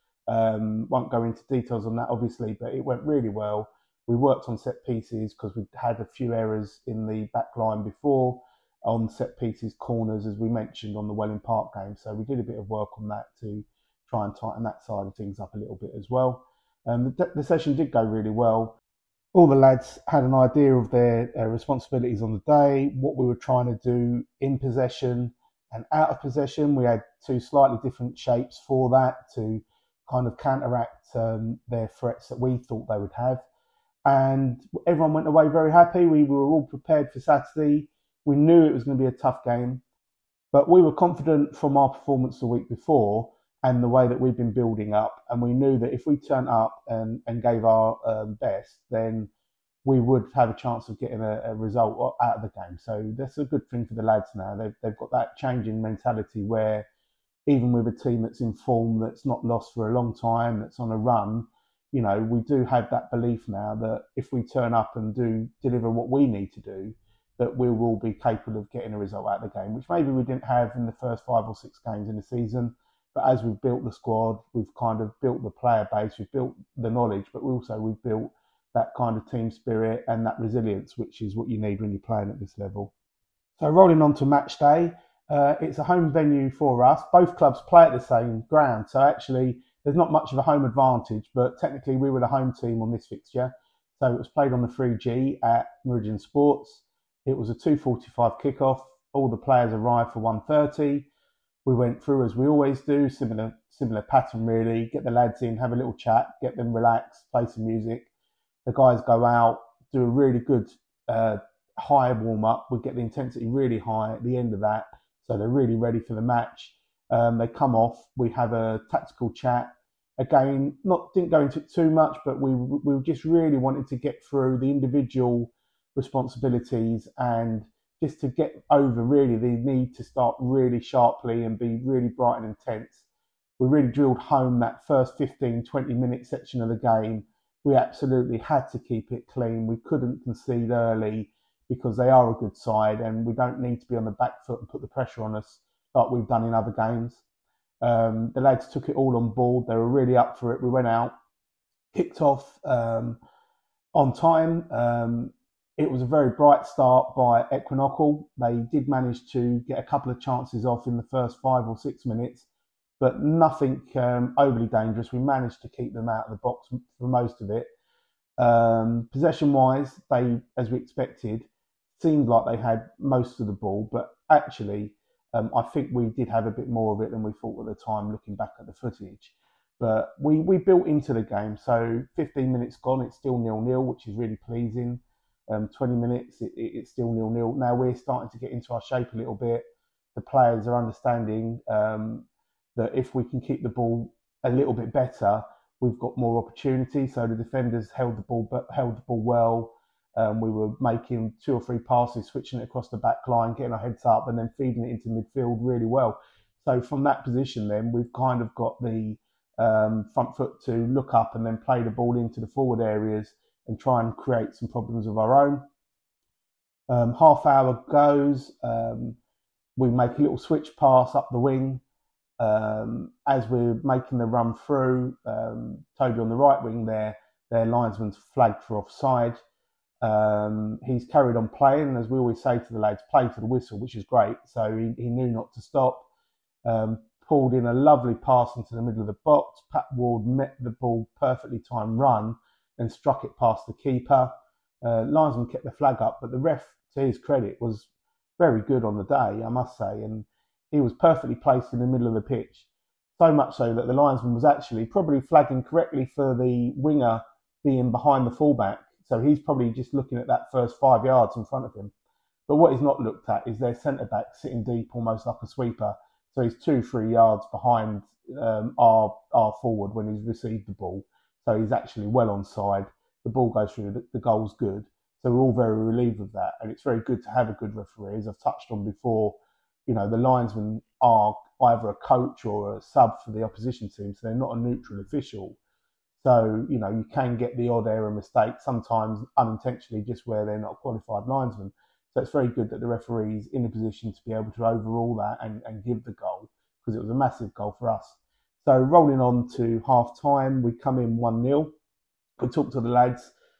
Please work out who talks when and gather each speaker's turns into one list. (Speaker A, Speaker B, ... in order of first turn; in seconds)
Speaker A: 0.3-18.8, 19.3-33.4, 34.0-39.8, 40.5-49.3, 49.8-56.9, 57.5-82.9, 83.6-101.1, 101.6-108.1, 108.7-133.0, 133.6-147.2, 147.8-151.1, 151.9-153.2, 153.9-162.5, 163.0-167.7, 168.4-215.7, 216.9-219.2, 219.8-221.8, 222.4-229.4, 230.0-236.1, 236.6-247.9, 248.4-252.7, 253.2-261.9, 262.5-285.6, 286.2-301.7, 302.4-303.3